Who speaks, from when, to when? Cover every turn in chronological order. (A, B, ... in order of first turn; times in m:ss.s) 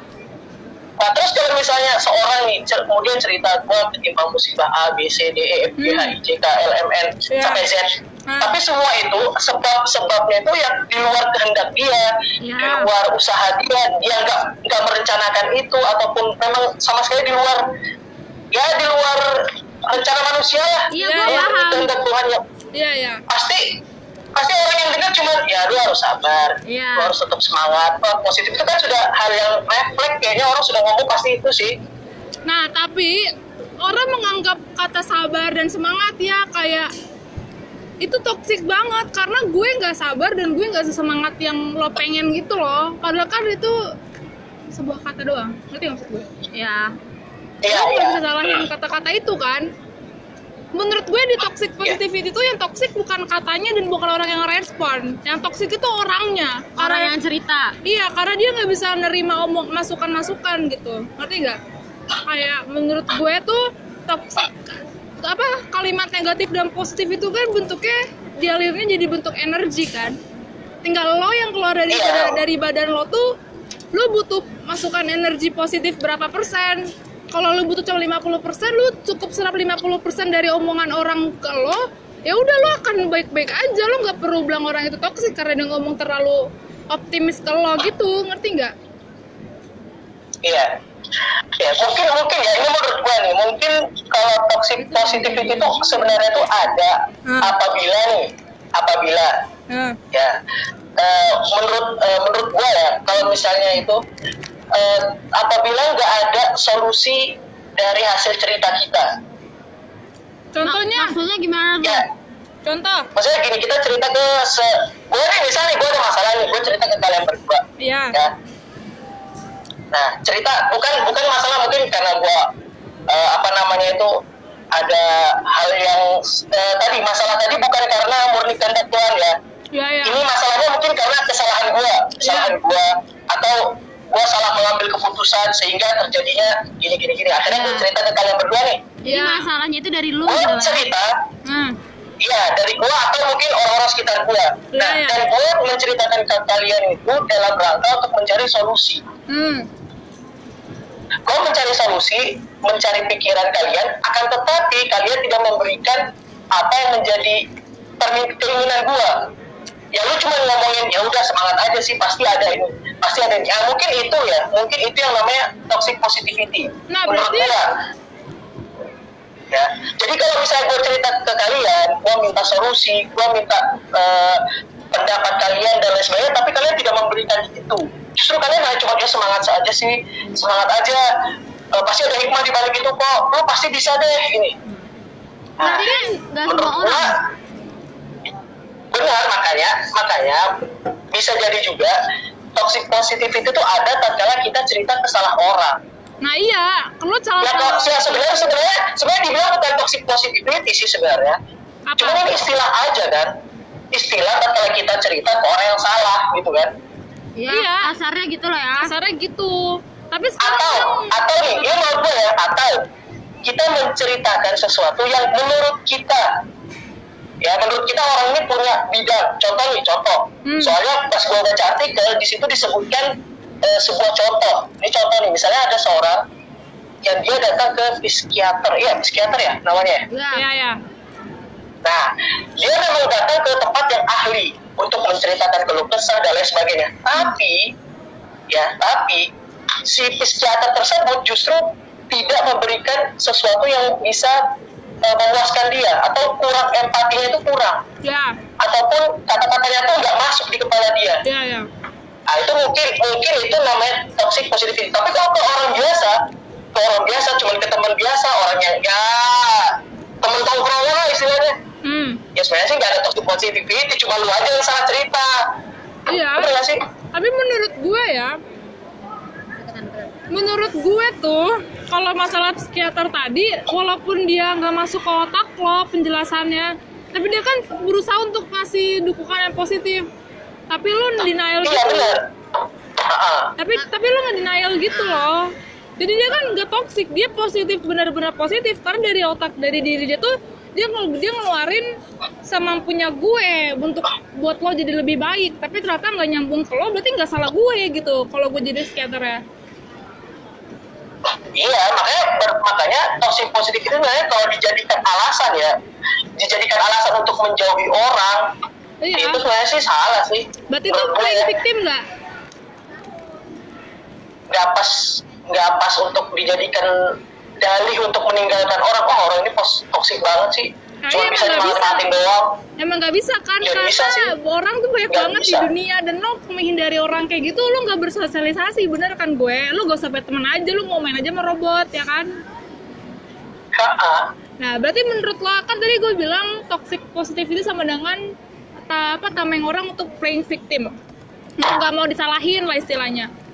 0:01.0-0:17.7 A
0:05.8-0:06.1 B
0:07.3-0:07.6 B
0:08.3-0:08.6 B
0:12.4-0:12.9 C
0:18.5-0:22.4 A
0:20.9-0:21.9 C
0:21.0-0:21.5 B
0:22.7-0:23.2 B
0:23.3-0:23.8 A
0:24.3-0:31.8 A
0:26.7-0:27.1 C
0:32.5-0:33.3 B
0:33.8-0:36.9 B
0:38.0-0:43.8 B
0:44.7-0:46.3 B
0:46.5-0:46.9 C
0:47.6-0:48.6 A
0:47.7-0:49.7 B
0:50.7-0:57.1 B
0:56.8-0:57.7 C
0:57.8-1:01.6 B
1:02.2-1:04.5 B
1:05.2-1:10.2 B
1:10.8-1:13.3 B
1:11.9-1:12.4 A
1:13.9-1:28.7 B
1:30.4-1:30.7 A
1:31.6-1:39.4 A
1:37.3-1:37.5 B
1:39.7-1:40.0 B
1:40.1-1:40.4 A
1:41.0-1:44.0 A
1:44.7-1:49.1 A
1:50.5-1:51.2 B
1:50.6-1:52.0 C
1:52.6-1:53.1 B
1:53.1-1:58.3 A
1:57.8-1:58.2 B
1:59.9-2:02.5 A
2:03.1-2:09.4 A
2:09.7-2:10.2 B
2:10.0-2:18.8 A
2:12.2-2:12.5 B
2:17.5-2:17.9 C
2:19.0-2:20.8 C
2:19.0-2:19.4 B
2:20.2-2:21.1 A
2:21.4-2:21.8 B
2:22.2-2:29.0 A
2:24.7-2:25.2 B
2:29.3-2:29.7 B
2:31.3-2:37.4 A
2:38.0-2:39.2 A
2:39.9-2:47.7 A
2:46.9-2:47.6 B
2:49.5-3:01.0 A
3:01.7-3:04.6 A
3:05.6-3:05.9 A
3:05.6-3:07.2 C
3:05.6-3:06.1 B
3:06.4-3:07.2 A
3:08.9-3:10.5 A
3:11.1-3:12.0 A
3:12.6-3:15.8 A
3:16.2-3:18.5 B
3:17.4-3:21.4 A
3:21.9-3:22.3 B
3:22.0-3:23.3 A
3:23.9-3:26.7 A
3:27.4-3:28.9 C
3:27.5-3:27.9 B
3:28.8-3:31.9 B
3:30.4-3:32.8 A
3:33.4-3:36.3 A
3:37.4-3:46.2 A
3:40.4-3:40.8 B
3:47.0-3:50.1 A
3:50.1-3:50.4 C
3:50.3-3:50.8 B
3:51.8-3:57.7 A
3:58.5-3:59.3 A
3:59.8-4:04.4 A
4:05.0-4:07.8 A
4:08.0-4:08.4 B
4:08.6-4:11.2 A
4:11.2-4:11.7 B
4:12.3-4:21.6 A
4:21.8-4:22.2 B
4:22.3-4:25.4 A
4:26.1-4:26.6 B
4:26.3-4:26.8 A
4:27.1-4:28.4 B
4:29.6-4:30.3 C
4:30.3-4:40.1 B
4:40.7-4:42.2 B
4:41.6-4:42.3 A
4:43.0-4:43.5 A
4:43.6-4:51.9 B
4:44.9-4:45.3 C
4:52.4-4:59.4 B
5:01.5-5:05.8 A
5:06.4-5:08.5 A
5:09.0-5:09.4 B
5:09.2-5:11.6 A
5:10.7-5:12.0 B
5:14.5-5:16.9 A
5:17.6-5:22.6 A
5:21.0-5:22.0 B
5:22.8-5:32.4 B
5:23.6-5:24.3 A
5:25.1-5:25.7 A
5:33.7-5:34.3 A
5:34.6-5:40.9 B
5:41.6-5:43.3 B